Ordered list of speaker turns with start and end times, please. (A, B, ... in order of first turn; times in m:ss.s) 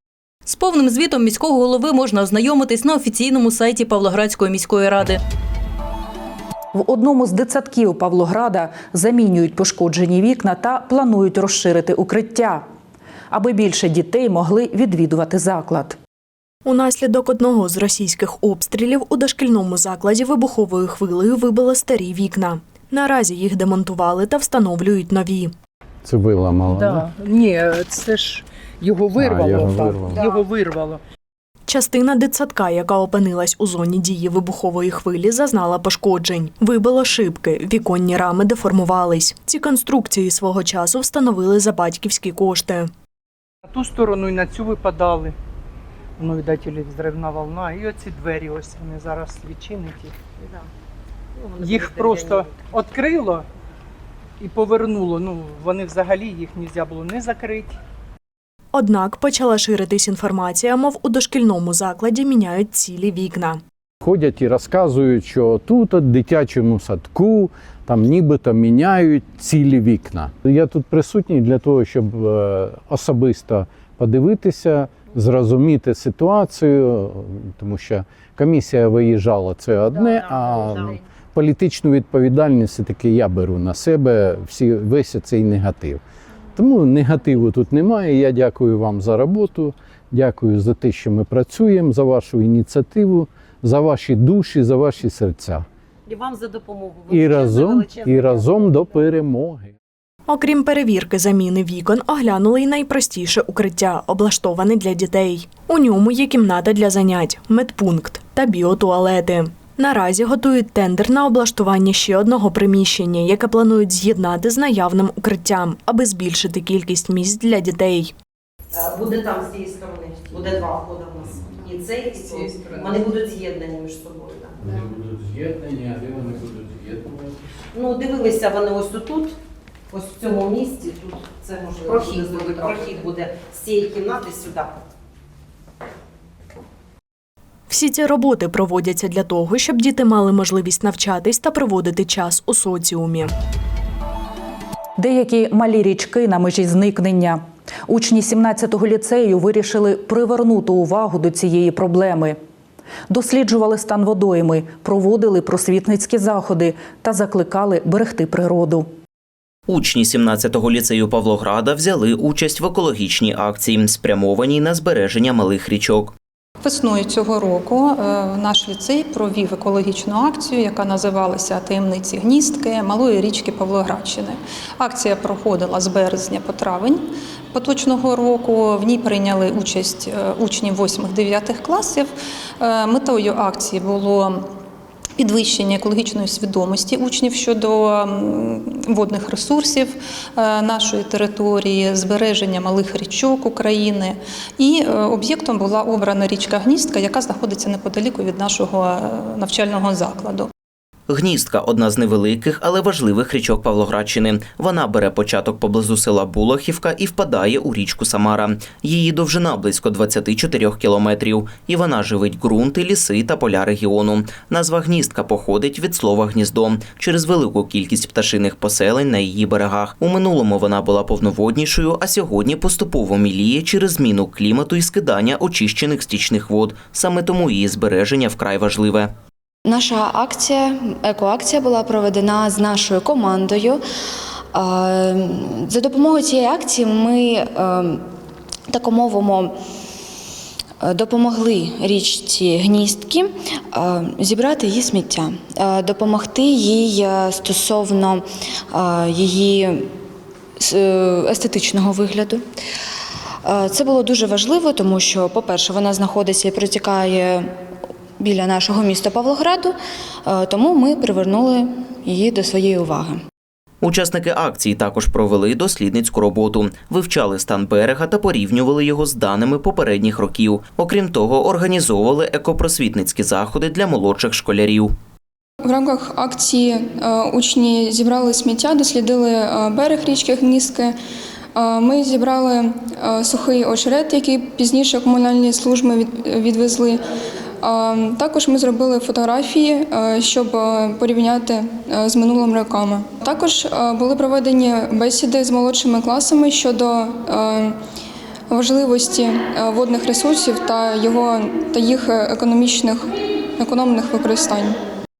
0:00.4-0:05.2 A
0:06.7-0:12.6 B
0:13.3-0:16.0 B
0:16.6-0:25.5 C
0:26.0-0:27.0 D
0:26.6-0:31.0 E
0:29.2-0:30.2 D
0:31.7-0:42.9 C
0:43.6-0:45.3 E
0:46.2-0:50.2 E
0:50.4-0:50.7 F
0:51.3-0:52.5 F
0:51.6-0:53.4 E
0:54.4-0:57.7 E
0:58.7-1:03.6 C
1:04.0-1:26.0 D
1:19.9-1:21.0 F
1:26.6-1:35.6 D
1:36.1-1:39.0 F
1:37.1-1:39.7 D
1:40.3-1:58.1 C
1:58.7-2:04.8 F
2:04.6-2:07.4 D
2:07.7-2:09.3 F
2:09.9-2:14.7 F
2:17.7-2:23.3 C
2:25.0-2:32.4 B
2:33.1-2:38.9 B
2:39.7-2:46.1 G
2:46.6-3:04.5 H
3:05.2-3:20.5 H
3:21.1-3:49.1 G
3:49.6-3:53.8 I
3:54.5-3:58.0 I
3:58.7-3:59.6 I
4:00.8-4:09.9 I
4:10.6-4:12.4 I
4:13.4-4:17.5 I
4:18.2-4:23.2 I
4:23.8-4:34.9 G
4:35.6-4:41.0 J
4:41.5-4:47.0 J
4:47.6-4:57.8 J
4:58.5-5:04.8 J